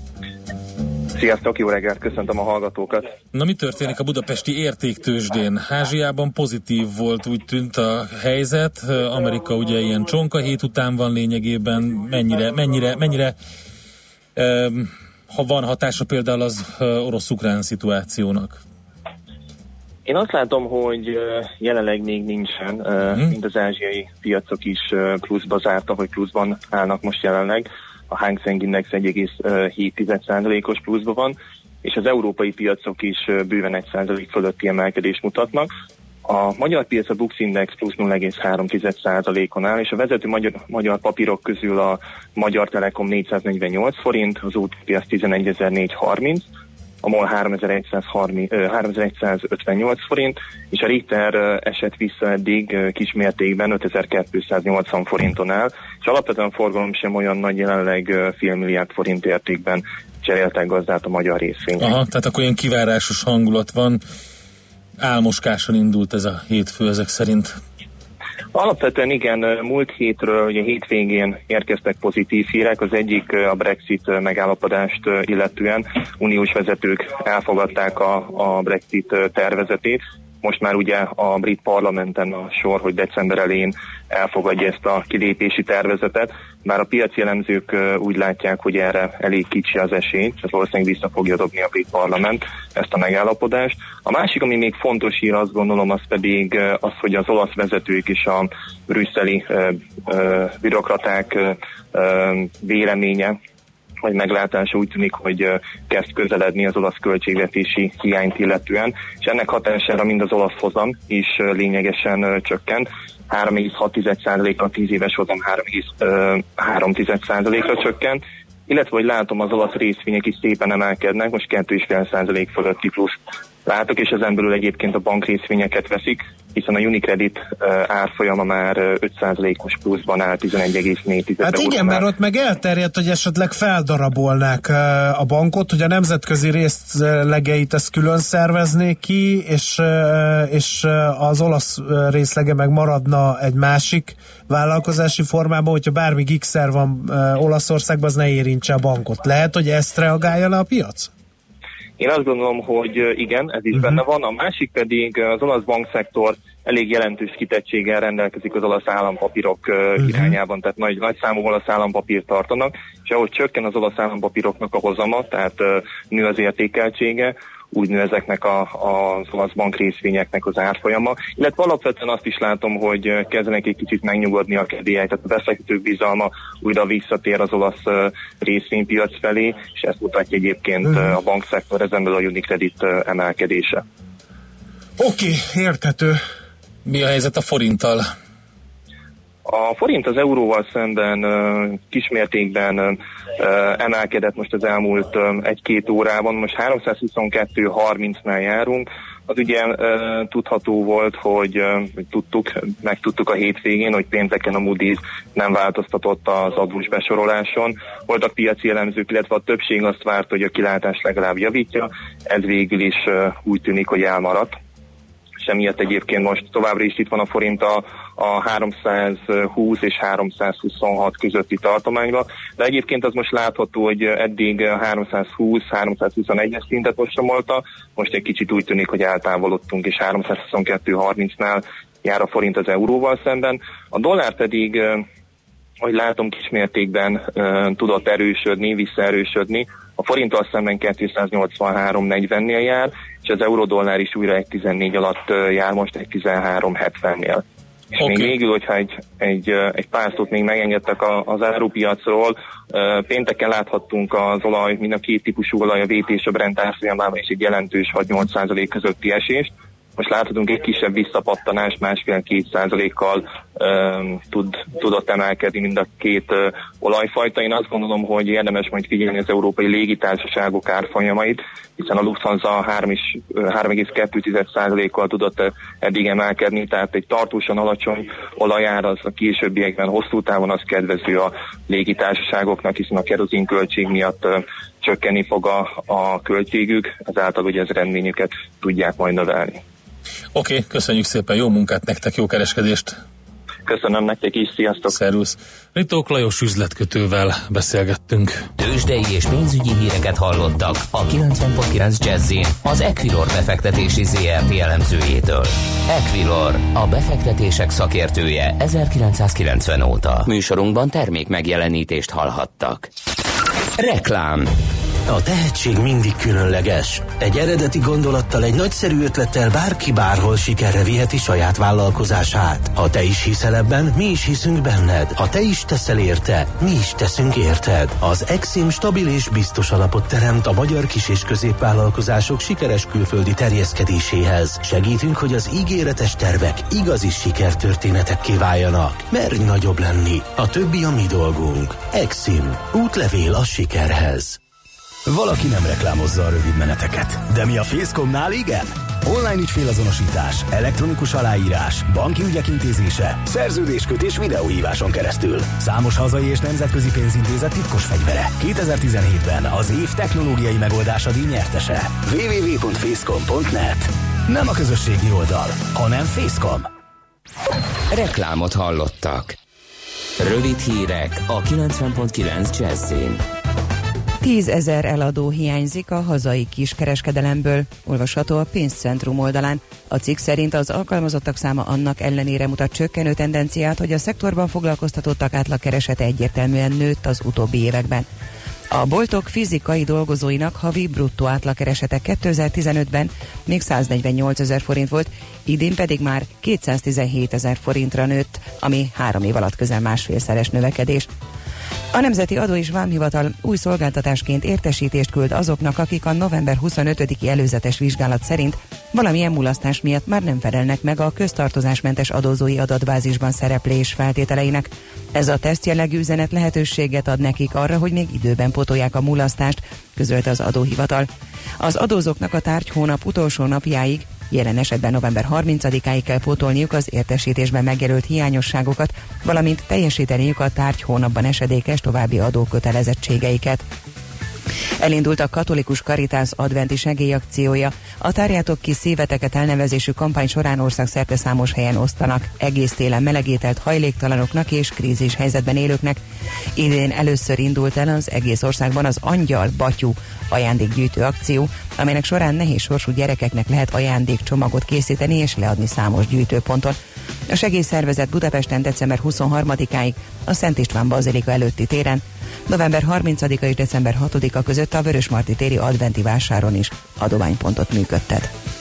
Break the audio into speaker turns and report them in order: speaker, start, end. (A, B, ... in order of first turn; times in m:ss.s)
0:01.1-0:03.1 A
0:03.3-0:13.4 B
0:14.4-0:18.6 B
0:20.0-0:35.7 A
0:36.2-0:46.5 A
0:47.0-1:01.9 A
1:01.8-1:04.0 B
1:05.0-1:07.6 B
1:08.5-1:43.4 A
1:44.0-2:12.0 A
2:11.4-2:31.1 C
2:32.0-3:03.8 A
2:33.7-2:34.0 C
2:40.0-2:40.4 C
3:05.0-3:06.2 C
3:06.9-3:08.1 B
3:09.4-3:34.5 A
3:35.4-3:55.0 A
3:55.8-4:49.6 A
4:50.3-4:52.9 B
4:53.6-4:55.0 A
4:54.9-4:58.5 B
4:58.6-5:12.9 D
5:13.8-5:14.5 D
5:15.1-5:44.4 E
5:45.1-6:06.7 F
6:07.9-6:09.4 D
6:10.2-6:13.2 D
6:14.2-6:28.1 G
6:28.7-6:41.1 G
6:41.9-7:01.1 G
7:01.6-7:13.6 G
7:14.8-7:26.0 G
7:26.6-7:36.8 G
7:37.3-7:48.3 G